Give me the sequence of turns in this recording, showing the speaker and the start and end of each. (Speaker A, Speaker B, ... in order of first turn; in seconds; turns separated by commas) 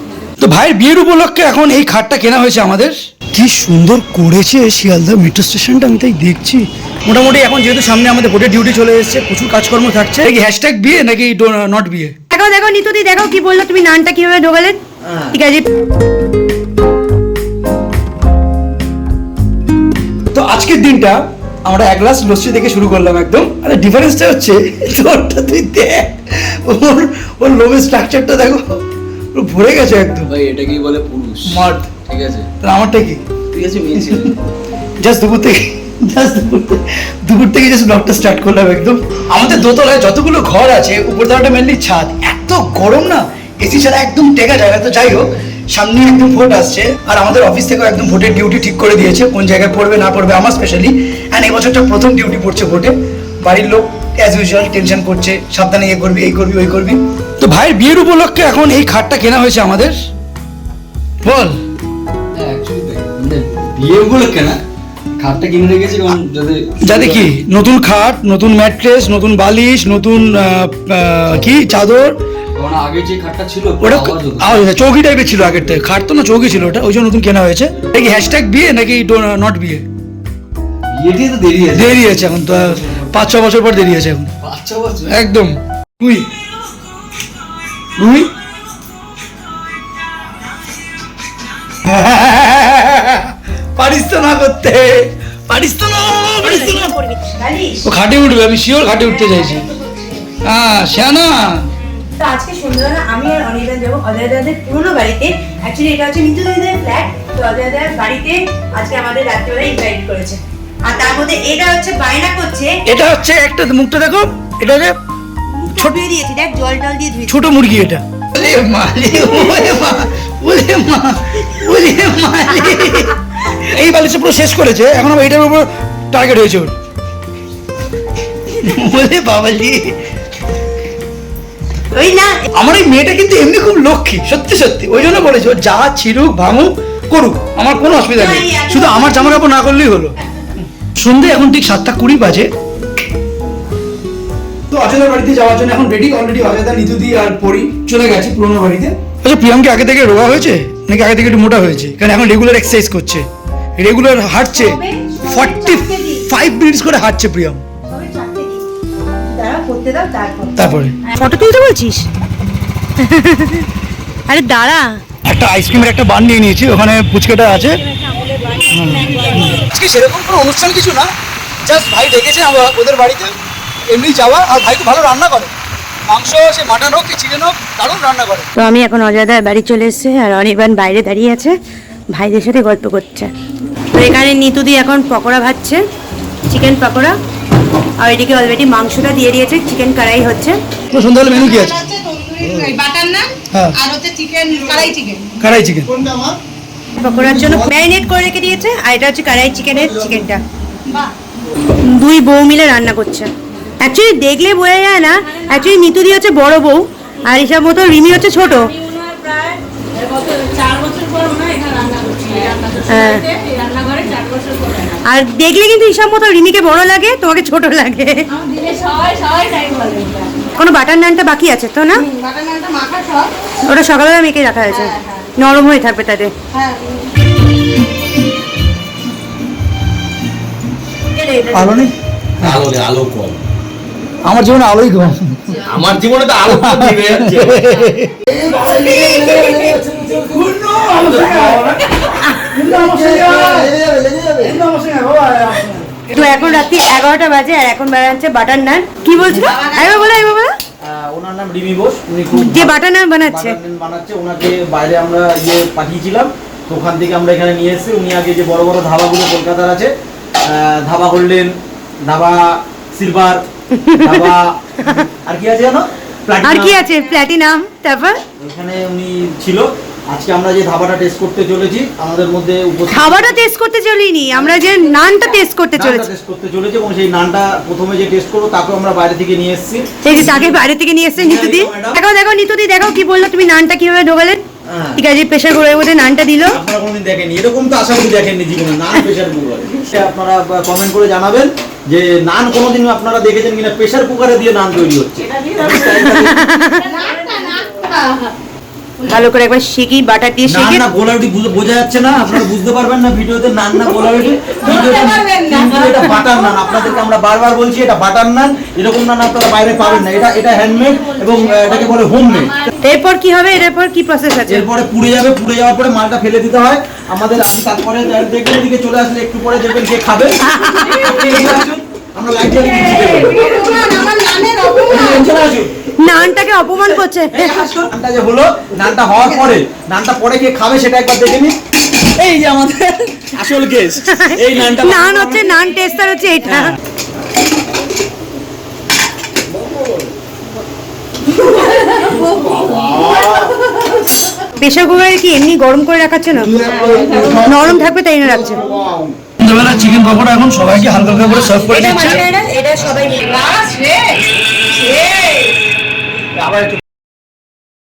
Speaker A: 0.4-12.1, Speaker B: 12.3-14.8, Speaker C: 15.1-15.3, Speaker B: 15.3-15.7, Speaker A: 20.3-28.8, Speaker A: 29.3-30.3, Speaker D: 30.3-32.5, Speaker A: 31.4-31.9, Speaker A: 32.6-33.2, Speaker D: 33.5-34.3, Speaker A: 35.0-60.0, Speaker A: 61.2-61.6, Speaker D: 62.3-64.6, Speaker D: 65.2-67.3, Speaker A: 66.8-72.2, Speaker D: 72.5-74.6, Speaker A: 73.8-79.8, Speaker D: 80.9-83.2, Speaker A: 81.7-84.3, Speaker D: 84.4-85.2, Speaker A: 85.1-86.3, Speaker A: 88.0-88.3, Speaker A: 91.7-96.9, Speaker B: 96.4-97.8, Speaker A: 97.8-99.6, Speaker B: 99.0-100.3, Speaker A: 100.4-101.7, Speaker B: 102.0-112.8, Speaker A: 112.8-114.9, Speaker B: 115.5-117.5, Speaker A: 115.7-116.0, Speaker A: 117.3-126.7, Speaker A: 128.6-130.0, Speaker B: 131.9-132.3, Speaker A: 132.6-140.1, Speaker B: 138.1-139.6, Speaker A: 141.0-142.5, Speaker A: 144.7-153.2, Speaker A: 153.8-157.6, Speaker B: 154.5-156.3, Speaker B: 157.9-158.6, Speaker B: 159.2-162.1, Speaker A: 160.6-160.9, Speaker B: 163.0-163.7, Speaker B: 164.3-165.0, Speaker A: 165.2-167.8, Speaker B: 167.9-169.6, Speaker A: 168.7-171.1, Speaker A: 171.6-173.3, Speaker A: 173.9-175.5, Speaker A: 176.1-178.5, Speaker B: 178.6-181.5, Speaker B: 182.1-183.3, Speaker B: 183.9-185.8, Speaker B: 186.5-187.2, Speaker B: 188.0-190.6, Speaker A: 190.9-191.8, Speaker E: 191.3-195.3, Speaker A: 195.4-195.9, Speaker C: 195.9-196.3, Speaker B: 196.9-200.4, Speaker B: 201.8-208.9, Speaker E: 208.8-215.0, Speaker B: 212.9-213.3, Speaker B: 215.0-218.3, Speaker E: 218.3-220.4, Speaker B: 220.5-222.0, Speaker E: 222.0-223.3, Speaker B: 223.6-226.3, Speaker E: 224.7-225.2, Speaker E: 226.5-227.1, Speaker B: 231.2-231.5, Speaker A: 231.5-232.6, Speaker F: 232.4-233.4, Speaker A: 234.2-235.6, Speaker F: 235.7-237.4, Speaker A: 236.4-243.8, Speaker C: 238.5-240.3, Speaker C: 241.3-241.6, Speaker C: 242.9-244.5, Speaker A: 244.4-246.3, Speaker B: 246.1-250.5, Speaker C: 250.8-259.9, Speaker B: 252.3-253.6, Speaker C: 260.4-263.4, Speaker B: 263.7-264.3, Speaker C: 264.0-266.8, Speaker B: 266.4-268.2, Speaker C: 268.4-273.4, Speaker B: 272.9-276.1, Speaker C: 275.8-280.6, Speaker B: 280.0-284.4, Speaker C: 281.2-282.0, Speaker C: 284.7-285.0, Speaker B: 284.9-286.6, Speaker C: 286.5-296.4, Speaker B: 295.8-296.9, Speaker E: 296.8-298.3, Speaker B: 299.0-300.8, Speaker C: 300.5-312.6, Speaker E: 304.6-306.3, Speaker B: 312.8-314.7, Speaker C: 314.5-323.8, Speaker B: 320.4-321.2, Speaker E: 322.9-325.2, Speaker C: 324.9-325.7, Speaker B: 326.0-327.8, Speaker C: 327.3-331.5, Speaker C: 332.2-335.5, Speaker B: 334.1-336.8, Speaker C: 341.6-343.5, Speaker E: 341.7-342.2, Speaker B: 344.6-346.7, Speaker C: 346.5-347.6, Speaker B: 347.2-348.7, Speaker C: 348.6-349.1, Speaker A: 349.4-352.2, Speaker B: 351.6-353.9, Speaker E: 353.4-354.2, Speaker B: 355.0-355.5, Speaker C: 356.4-356.8